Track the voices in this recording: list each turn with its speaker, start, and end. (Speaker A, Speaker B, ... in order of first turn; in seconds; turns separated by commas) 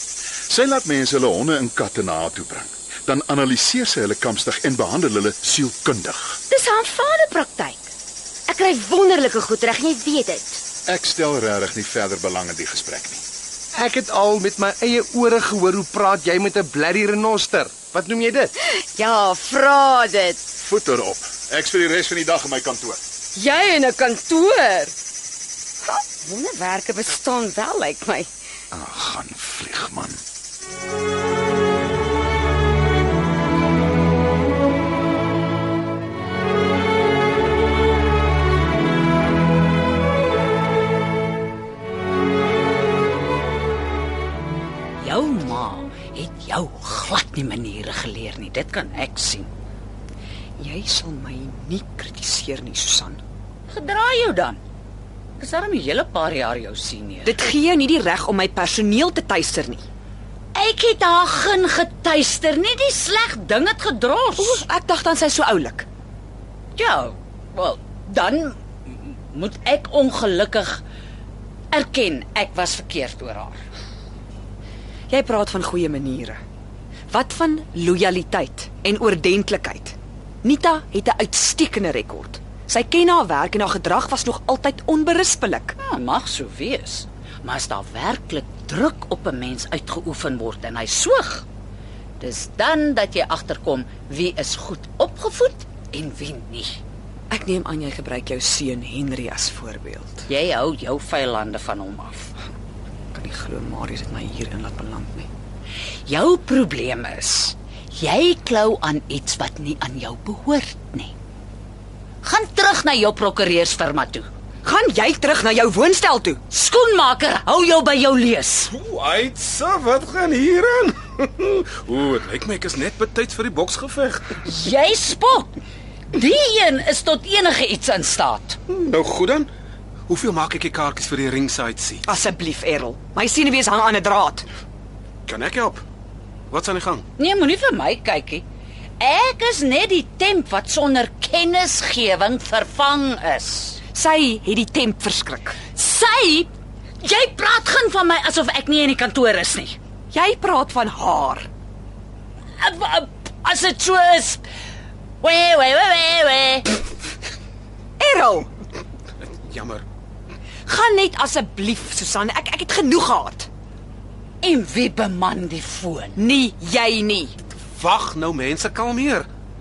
Speaker A: 0.5-6.4, Speaker B: 6.5-7.9, Speaker B: 8.5-10.6, Speaker A: 10.9-13.2, Speaker C: 13.7-18.5, Speaker B: 18.8-20.4, Speaker A: 20.6-23.0, Speaker B: 23.4-24.9, Speaker B: 25.8-28.3, Speaker A: 28.7-30.2, Speaker D: 45.0-49.5, Speaker E: 50.6-53.2, Speaker D: 53.7-54.6, Speaker D: 55.4-57.4, Speaker E: 57.2-59.8, Speaker D: 60.5-64.6, Speaker E: 64.4-65.9, Speaker D: 66.8-70.8, Speaker D: 71.7-73.6, Speaker E: 75.1-76.4, Speaker E: 77.1-85.8, Speaker D: 85.8-91.5, Speaker D: 92.2-96.8, Speaker E: 97.3-100.2, Speaker D: 100.3-102.3, Speaker E: 103.1-105.3, Speaker D: 106.1-111.1, Speaker D: 112.2-114.3, Speaker E: 114.6-116.4, Speaker D: 116.5-118.7, Speaker F: 118.7-124.4, Speaker D: 124.4-125.5, Speaker D: 126.1-128.6, Speaker F: 128.7-129.5, Speaker F: 130.1-132.0, Speaker E: 132.1-134.5, Speaker F: 135.2-135.8, Speaker F: 136.5-137.1, Speaker D: 137.2-138.4, Speaker D: 139.0-143.8, Speaker E: 143.9-145.6, Speaker D: 145.7-149.8, Speaker E: 150.1-151.5, Speaker D: 152.6-154.4, Speaker D: 155.2-156.9, Speaker E: 158.0-158.5, Speaker F: 159.2-159.8, Speaker E: 160.7-163.5, Speaker D: 164.4-166.2, Speaker E: 166.2-167.3, Speaker F: 167.7-169.3